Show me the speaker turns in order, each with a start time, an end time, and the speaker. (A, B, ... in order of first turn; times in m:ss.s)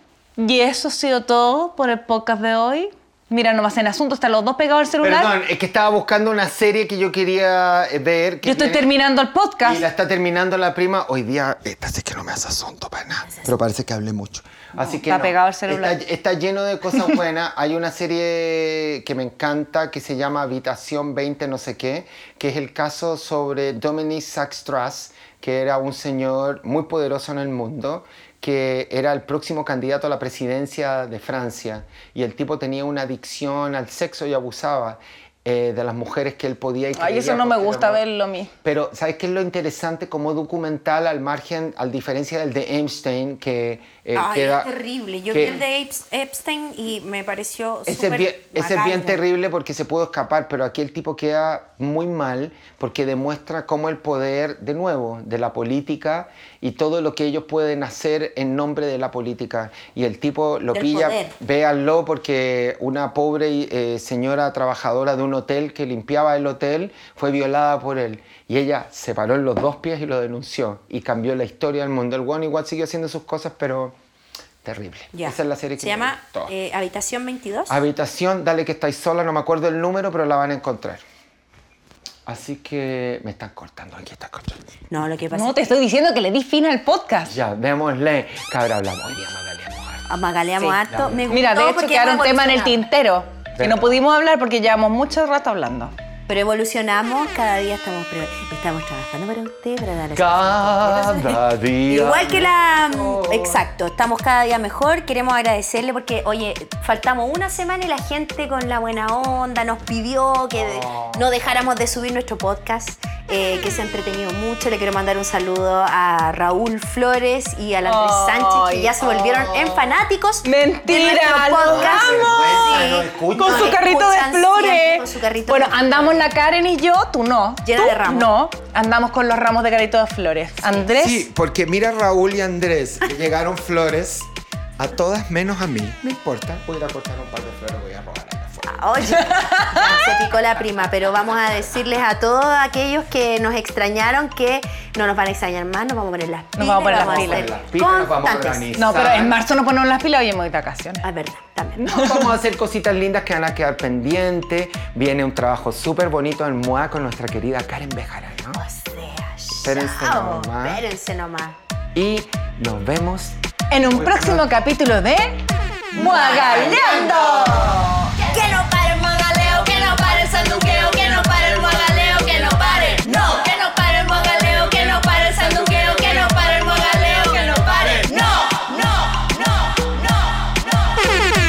0:00.4-0:05.3 A
0:05.0-0:08.8 B
0:08.4-0:09.8 A
0:09.6-0:38.0 B
0:14.8-0:16.0 A
0:36.9-0:38.5 A
0:38.6-0:44.7 B
0:44.1-0:49.2 C
0:45.3-0:45.6 B
0:47.9-1:14.0 B
1:00.7-1:01.3 C
1:14.6-1:16.5 B
1:15.1-1:17.8 C
1:17.7-1:21.0 B
1:22.2-1:24.6 B
1:24.9-1:25.7 C
1:25.3-1:27.3 A
1:27.3-1:30.1 B
1:30.1-1:32.8 C
1:30.9-1:31.3 B
1:31.3-1:35.9 A
1:33.5-1:34.0 B
1:36.3-2:06.3 C
1:40.1-1:43.6 B
1:50.5-1:51.3 B
1:57.8-1:59.2 A
1:59.2-1:59.9 B
2:00.4-2:11.3 A
2:01.6-2:03.8 B
2:07.6-2:08.3 C
2:10.8-2:18.8 B
2:18.6-2:28.7 C
2:19.2-2:20.0 A
2:26.6-2:27.5 A
2:26.9-2:29.3 B
2:28.8-2:31.0 A
2:31.0-2:32.2 C
2:31.8-2:38.6 B
2:38.5-2:41.6 C
2:39.6-2:40.8 B
2:41.9-2:44.5 B
2:43.7-2:47.8 A
2:45.9-3:00.5 C
2:49.6-2:58.2 A